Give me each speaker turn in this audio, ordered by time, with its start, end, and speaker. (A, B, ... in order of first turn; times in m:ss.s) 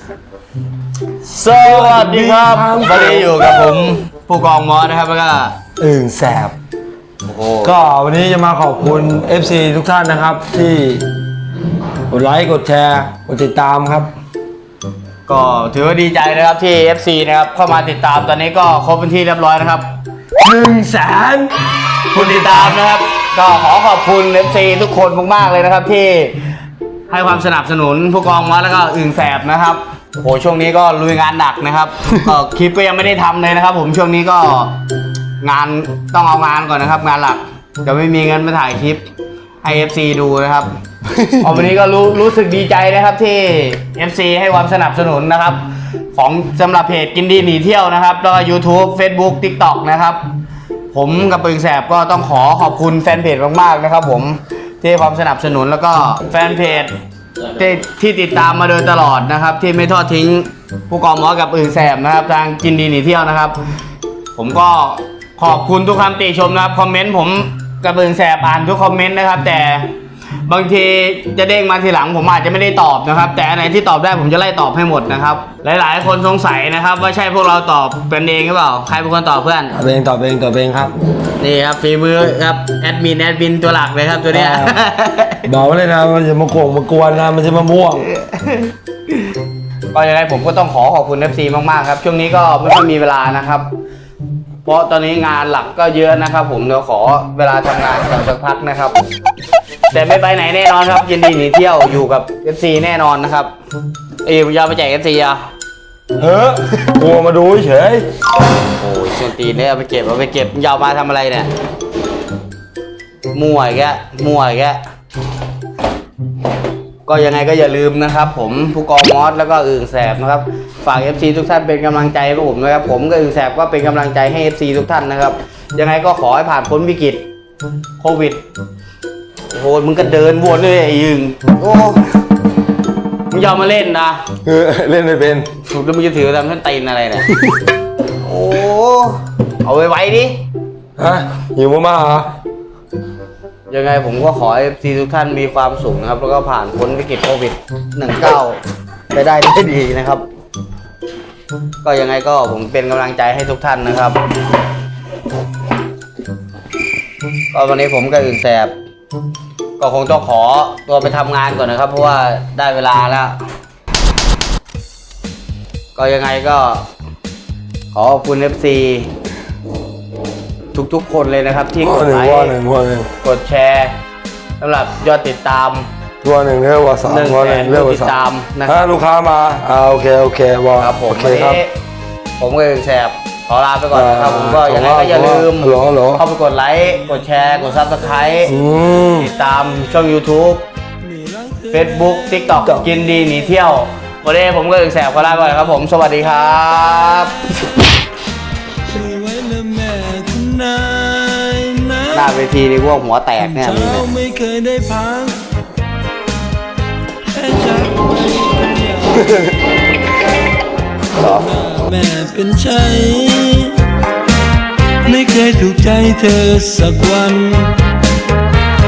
0:01.2-0:05.6 A
0:01.6-0:03.4 B
0:05.8-0:06.5 B
0:07.2-0:07.8 A
0:07.6-0:11.1 B
0:12.1-0:14.1 B
0:15.2-0:19.9 A
0:20.4-0:21.5 B
0:22.1-0:22.8 B
0:22.1-0:26.4 A
0:27.1-0:34.8 A
0:35.4-0:39.0 A
0:39.6-0:40.7 A
0:41.1-0:41.5 B
0:41.4-0:50.2 A
0:50.9-0:56.9 A
0:57.5-1:03.6 A
1:04.3-1:09.9 A
1:10.4-1:19.7 A
1:19.7-1:20.9 B
1:21.4-1:25.5 A
1:24.3-1:24.8 B
1:25.5-1:28.1 B
1:28.1-1:28.7 A
1:29.9-1:33.7 A
1:34.6-1:39.0 A
1:39.9-1:43.5 A
1:44.2-1:45.4 A
1:46.2-1:48.0 B
1:48.8-1:51.5 A
1:53.3-1:54.8 A
1:57.0-2:07.2 A
2:08.0-2:08.4 A
2:09.5-2:12.0 A
2:13.3-2:14.2 A
2:14.4-2:15.5 B
2:15.6-2:17.2 A
2:18.2-2:20.4 A
2:21.0-2:22.3 B
2:23.7-2:28.6 A
2:29.1-2:30.2 A
2:31.8-2:34.2 A
2:37.5-2:38.7 A
2:39.8-2:43.4 A
2:46.0-2:46.8 A
2:47.9-2:49.1 A
2:50.7-2:52.6 A
2:51.8-2:53.1 B
2:53.2-2:53.9 A
2:54.6-2:55.9 A
2:56.2-3:01.6 B
2:57.0-2:58.8 A
3:00.8-3:01.7 A
3:02.4-3:08.5 A
3:03.9-3:06.2 B
3:06.9-3:09.0 C
3:08.4-3:09.3 B
3:09.0-3:10.6 A
3:11.0-3:13.5 C
3:11.7-3:17.5 A
3:15.4-3:17.6 C
3:18.9-3:22.3 C
3:22.1-3:24.1 A
3:23.4-3:25.4 C
3:27.3-3:29.5 C
3:29.2-3:29.4 B
3:31.1-3:31.5 A
3:31.2-3:33.7 C
3:35.0-3:37.7 C